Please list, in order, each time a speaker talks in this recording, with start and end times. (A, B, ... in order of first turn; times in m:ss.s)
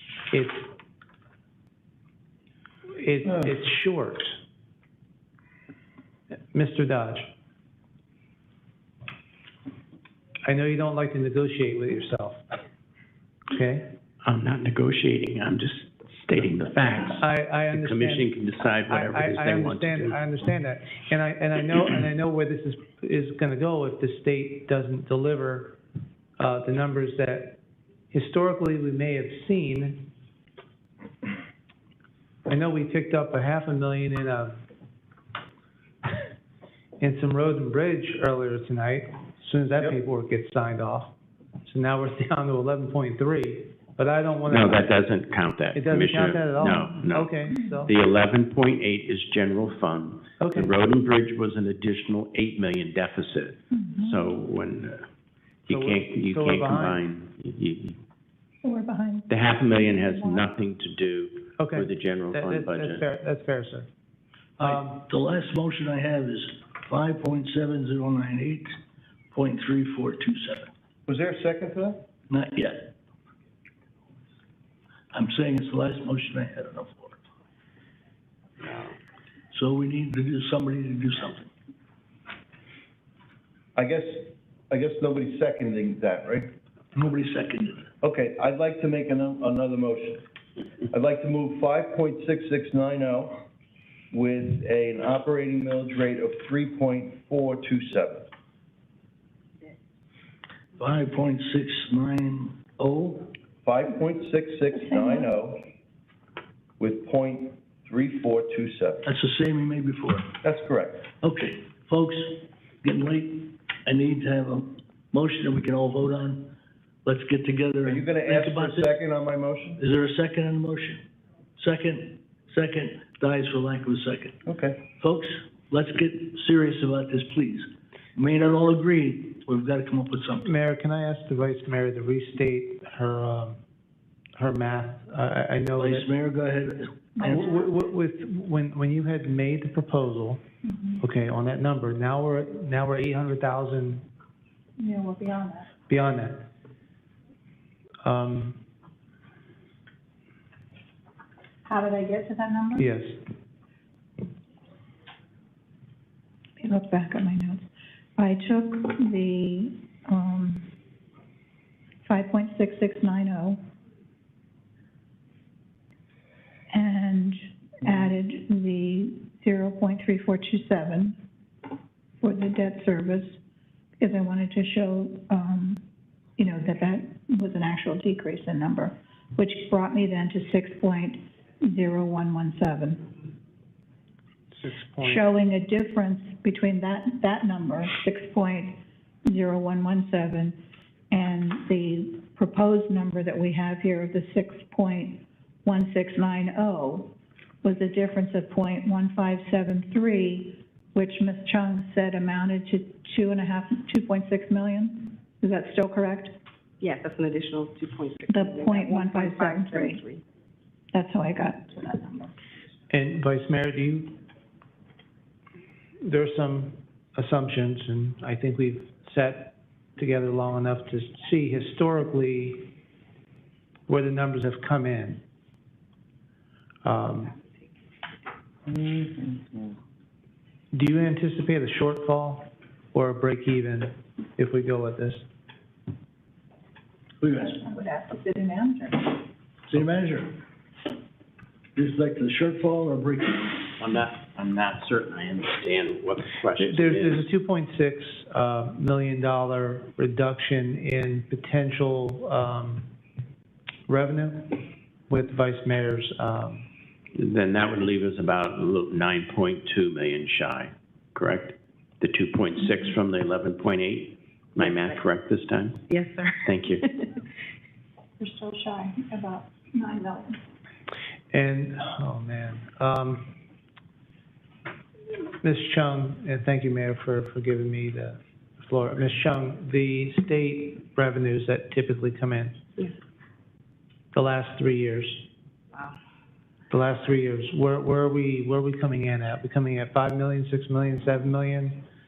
0:00.3-0:00.7 A
0:03.0-0:04.3 A
0:06.5-0:07.3 A
0:10.4-0:12.4 A
0:13.5-0:13.9 A
0:14.2-0:20.2 B
0:17.2-0:18.3 A
0:18.9-0:25.8 A
0:26.4-0:27.6 A
0:28.1-0:30.1 A
0:32.5-0:34.6 A
0:37.0-0:41.1 A
0:41.6-0:44.9 A
0:44.5-0:55.0 B
0:45.7-0:47.9 A
0:50.4-0:50.7 A
0:53.7-0:54.3 C
0:55.6-0:58.0 B
0:55.7-0:57.0 A
0:58.6-0:59.3 C
0:59.3-1:03.0 B
0:59.9-1:00.5 C
1:01.6-1:03.9 A
1:04.6-1:05.0 A
1:04.6-1:08.7 D
1:09.3-1:10.7 D
1:11.1-1:12.0 E
1:12.3-1:12.9 D
1:15.1-1:17.2 D
1:19.5-1:21.5 D
1:23.7-1:26.5 E
1:26.9-1:27.9 D
1:28.0-1:30.2 E
1:30.9-1:33.4 E
1:34.1-1:38.3 E
1:40.8-1:43.3 D
1:43.6-1:45.6 E
1:46.8-1:49.0 E
1:49.0-1:50.3 D
1:50.4-1:51.0 E
1:51.2-1:56.5 D
1:57.0-1:58.9 D
1:57.8-1:59.8 E
1:59.8-2:01.0 D
2:01.6-2:04.4 D
2:04.4-2:04.8 E
2:04.9-2:10.5 D
2:10.4-2:13.6 A
2:14.4-2:16.1 A
2:15.8-2:17.0 D
2:17.2-2:17.5 C
2:17.2-2:20.4 A
2:20.6-2:21.0 C
2:21.0-2:24.0 A
2:24.8-2:25.7 C
2:25.9-2:26.5 A
2:28.0-2:28.6 A
2:31.6-2:32.9 C
2:32.8-2:33.2 A
2:36.6-2:37.6 C
2:38.2-2:40.7 C
2:42.0-2:43.6 C
2:46.7-2:51.2 C
2:52.2-2:53.4 C
2:54.0-2:55.8 C
2:56.4-3:03.1 C
3:04.5-3:05.3 A
3:05.0-3:10.6 C
3:11.1-3:26.3 C
3:26.8-3:30.2 F
3:28.3-3:30.0 C
3:30.9-3:32.3 C
3:32.9-3:34.2 A
3:36.0-3:42.7 A
3:43.9-3:45.2 A
3:46.8-3:47.3 A
3:48.7-3:49.7 E
3:50.7-3:55.2 A
3:57.2-3:57.6 D
3:57.4-3:59.2 C
3:59.7-4:00.4 D
4:01.8-4:03.7 D
4:03.7-4:07.2 B
4:06.6-4:12.9 A
4:13.9-4:16.6 A
4:17.1-4:25.8 B
4:24.6-4:25.0 F
4:25.9-4:27.0 F
4:26.4-4:26.8 B
4:28.2-4:30.4 C
4:31.3-4:33.3 A
4:35.4-4:42.6 A
4:44.1-4:45.2 A
4:46.7-4:51.8 A